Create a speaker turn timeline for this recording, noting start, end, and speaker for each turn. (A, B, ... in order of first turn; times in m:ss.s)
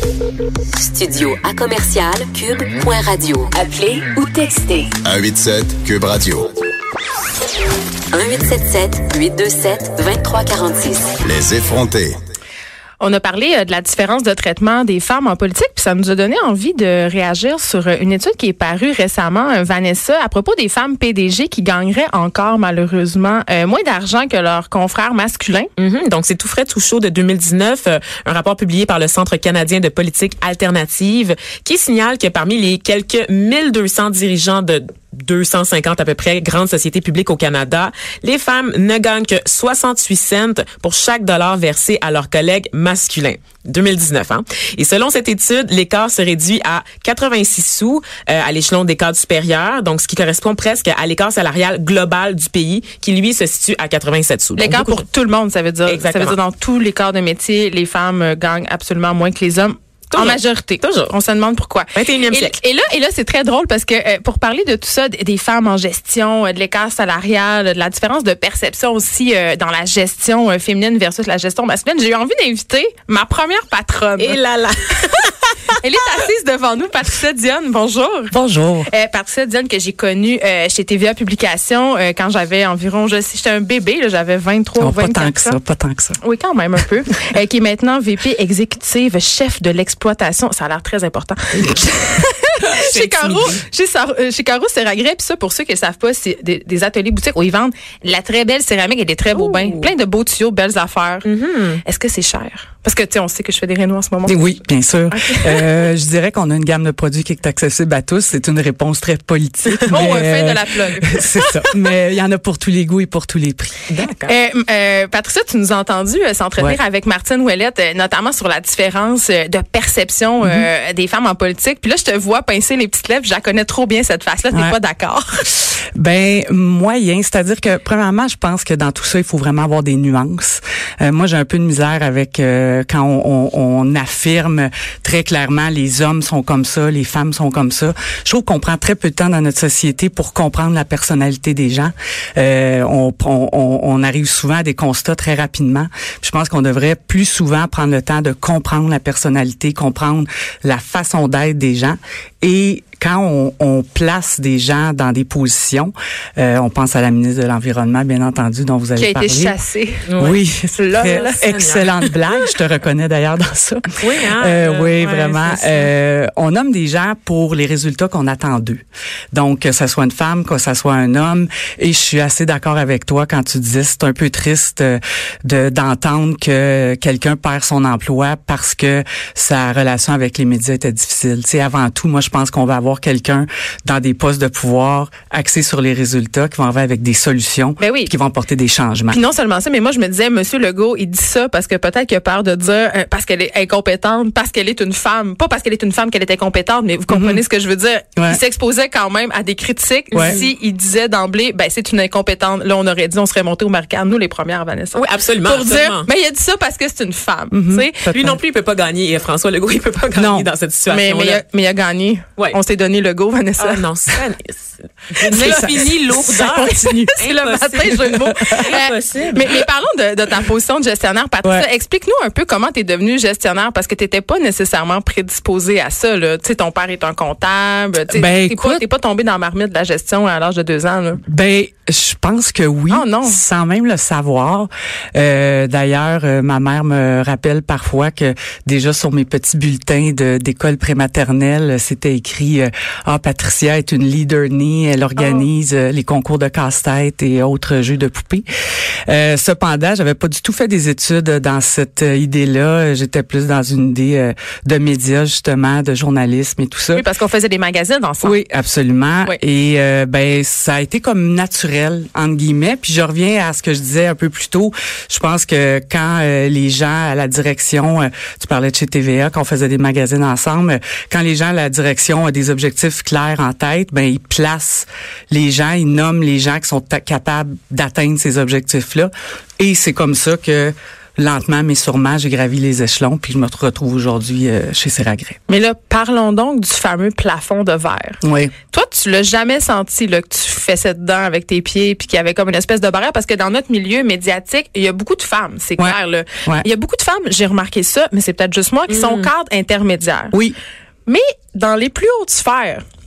0:00.8-0:04.9 A
0:05.0-0:06.5 B
0:08.1-0:11.1 A
0:11.2-0:12.2 B
0:13.0-0:25.7 C
0:25.8-0:55.0 D
0:54.6-1:14.4 C
0:55.9-0:56.4 D
1:00.1-1:01.1 D
1:01.9-1:02.6 D
1:14.2-1:15.8 D
1:15.8-1:18.3 C
1:18.3-1:18.9 E
1:18.8-1:25.6 C
1:24.8-1:26.2 E
1:26.2-1:41.2 C
1:32.7-1:33.6 D
1:39.4-1:39.9 D
1:41.2-1:41.8 D
1:41.8-1:44.4 C
1:44.2-1:53.9 E
1:45.1-1:45.7 C
1:49.9-1:51.5 C
1:53.9-1:54.3 D
1:54.2-2:05.5 C
2:00.4-2:00.7 E
2:04.5-2:04.8 E
2:05.9-2:39.6 E
2:39.0-2:40.1 C
2:40.1-2:40.4 D
2:40.2-3:09.2 E
2:40.8-2:41.5 C
2:41.0-2:42.1 D
2:44.0-2:45.9 D
3:07.8-3:08.1 C
3:09.1-3:28.1 C
3:17.1-3:17.4 E
3:20.1-3:20.4 D
3:24.9-3:26.1 D
3:27.5-3:28.4 E
3:28.1-3:31.4 D
3:30.1-3:30.5 E
3:30.9-3:33.8 C
3:33.6-3:39.6 D
3:35.2-3:37.3 E
3:35.3-3:51.2 C
3:37.8-3:38.8 E
3:48.1-3:48.8 E
3:51.3-4:08.4 E
3:52.9-3:53.4 C
4:05.2-4:05.5 C
4:09.1-4:17.0 E
4:16.9-4:18.4 C
4:18.2-4:45.4 E
4:45.5-5:00.4 C
4:48.2-4:48.5 E
4:55.8-4:56.6 E
4:59.0-4:59.2 D
5:01.0-5:02.8 C